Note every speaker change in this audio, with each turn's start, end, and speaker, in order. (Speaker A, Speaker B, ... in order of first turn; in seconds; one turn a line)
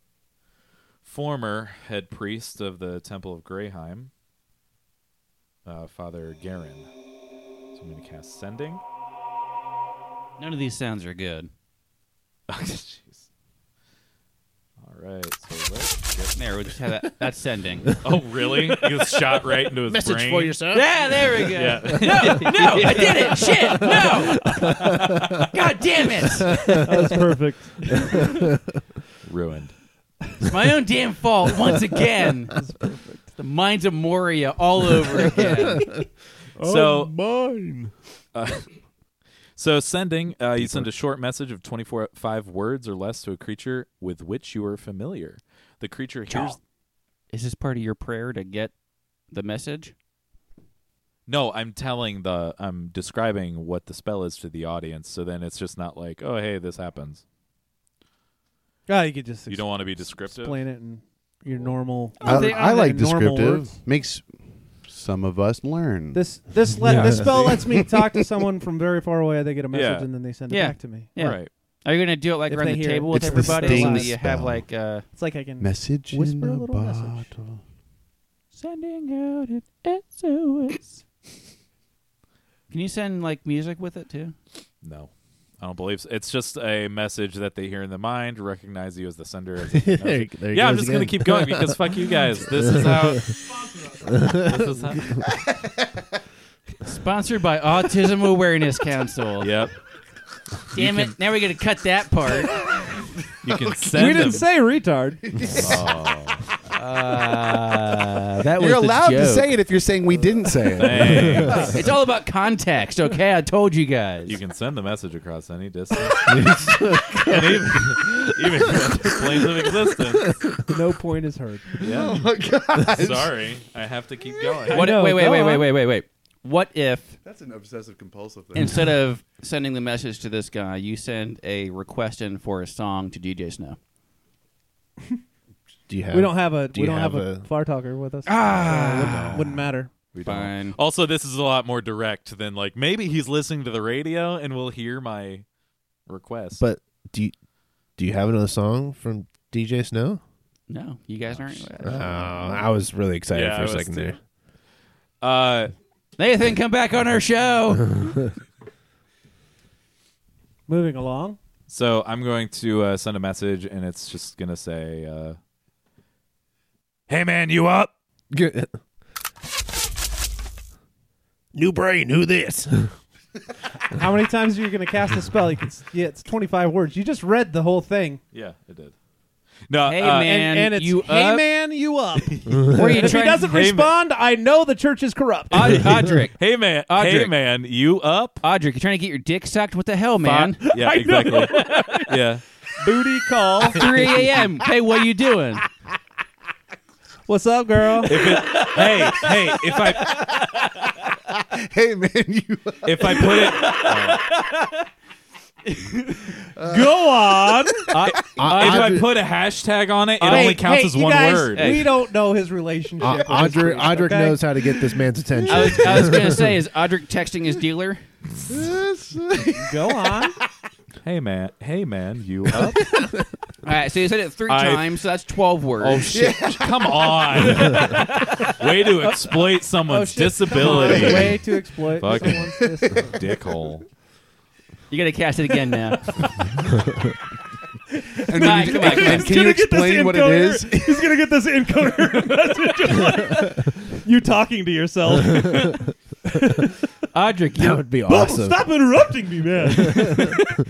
Speaker A: 1.0-4.1
Speaker A: 5.6-6.9
Speaker A: 7.7-8.8
Speaker B: 10.4-11.5
Speaker A: 12.5-13.2
Speaker A: 14.8-16.4
Speaker B: 16.4-17.9
Speaker A: 18.0-20.6
Speaker C: 19.9-20.8
Speaker B: 20.7-26.9
Speaker A: 21.5-23.0
Speaker D: 23.4-25.0
Speaker A: 23.8-25.5
Speaker D: 26.7-28.3
Speaker A: 29.2-29.8
Speaker B: 30.4-32.6
Speaker D: 32.5-33.2
Speaker B: 33.4-36.0
Speaker A: 36.6-37.1
Speaker C: 36.6-37.9
Speaker A: 38.3-38.7
Speaker A: 39.5-46.6
Speaker C: 46.3-46.6
Speaker B: 47.3-48.7
Speaker B: 49.3-49.9
Speaker A: 51.3-57.2
Speaker D: 58.9-63.8
Speaker A: 59.5-60.6
Speaker B: 62.2-62.7
Speaker E: 62.2-68.0
Speaker D: 66.1-71.1
Speaker C: 66.9-67.3
Speaker A: 69.7-70.1
Speaker B: 70.5-75.0
Speaker A: 71.2-71.5
Speaker D: 72.5-74.2
Speaker E: 73.1-74.6
Speaker D: 75.1-77.3
Speaker E: 75.6-77.6
Speaker B: 78.5-81.0
Speaker B: 82.7-84.3
Speaker A: 84.8-93.4
Speaker C: 89.7-92.0
Speaker C: 92.5-93.2
Speaker A: 94.2-95.2
Speaker B: 96.8-99.5
Speaker A: 99.4-99.7
Speaker B: 100.7-102.7
Speaker A: 100.7-101.1
Speaker A: 103.4-104.5
Speaker E: 103.5-103.8
Speaker D: 103.9-105.3
Speaker E: 105.3-105.8
Speaker A: 105.5-106.4
Speaker B: 106.7-109.6
Speaker E: 108.5-111.8
Speaker A: 110.8-111.8
Speaker B: 111.5-114.4
Speaker A: 114.2-120.5
Speaker D: 120.6-121.8
Speaker E: 121.8-123.3
Speaker A: 121.8-122.2
Speaker A: 122.8-125.0
Speaker B: 124.7-127.2
Speaker D: 124.7-125.7
Speaker E: 127.2-128.9
Speaker B: 128.5-133.8
Speaker C: 135.9-137.5
Speaker D: 136.1-139.9
Speaker B: 138.2-139.5
Speaker C: 138.6-139.5
Speaker A: 139.1-139.4
Speaker A: 140.1-145.4
Speaker B: 140.2-140.8
Speaker A: 146.1-146.6
Speaker C: 146.6-147.3
Speaker C: 148.0-150.2
Speaker B: 150.7-152.1
Speaker A: 151.3-152.5
Speaker C: 151.8-154.2
Speaker A: 153.3-154.1
Speaker A: 155.2-155.7
Speaker B: 156.2-158.3
Speaker D: 160.7-161.4
Speaker A: 161.7-165.4
Speaker A: 167.1-167.9
Speaker C: 168.3-168.7
Speaker C: 171.5-172.9
Speaker D: 173.9-178.2
Speaker A: 178.3-178.9
Speaker A: 179.7-180.4
Speaker B: 179.8-181.4
Speaker D: 180.2-185.9
Speaker B: 182.6-183.5
Speaker A: 183.4-183.9
Speaker B: 185.5-187.3
Speaker A: 186.4-188.4
Speaker B: 188.4-192.1
Speaker A: 190.2-192.4
Speaker D: 190.8-192.0
Speaker D: 192.8-193.9
Speaker B: 193.7-195.7
Speaker D: 197.3-198.2
Speaker A: 198.1-200.4
Speaker B: 198.2-200.4
Speaker E: 201.3-203.3
Speaker A: 202.8-204.3
Speaker B: 203.2-204.7
Speaker B: 205.7-206.3
Speaker D: 206.7-207.9
Speaker B: 207.9-209.0
Speaker A: 208.0-211.9
Speaker C: 208.3-209.1
Speaker B: 210.2-210.6
Speaker D: 210.2-214.8
Speaker B: 211.5-211.9
Speaker C: 213.0-216.4
Speaker B: 215.5-218.0
Speaker D: 215.5-215.8
Speaker E: 218.5-220.1
Speaker D: 219.6-220.4
Speaker A: 221.0-223.1
Speaker B: 223.6-226.1
Speaker A: 224.5-224.9
Speaker A: 225.8-233.8
Speaker E: 226.1-227.4
Speaker B: 227.7-228.5
Speaker D: 229.8-233.2
Speaker B: 234.9-236.5
Speaker D: 238.0-246.8
Speaker E: 238.2-241.1
Speaker B: 238.3-239.4
Speaker B: 247.1-247.8
Speaker C: 247.6-248.7
Speaker D: 248.1-250.4
Speaker C: 249.9-250.2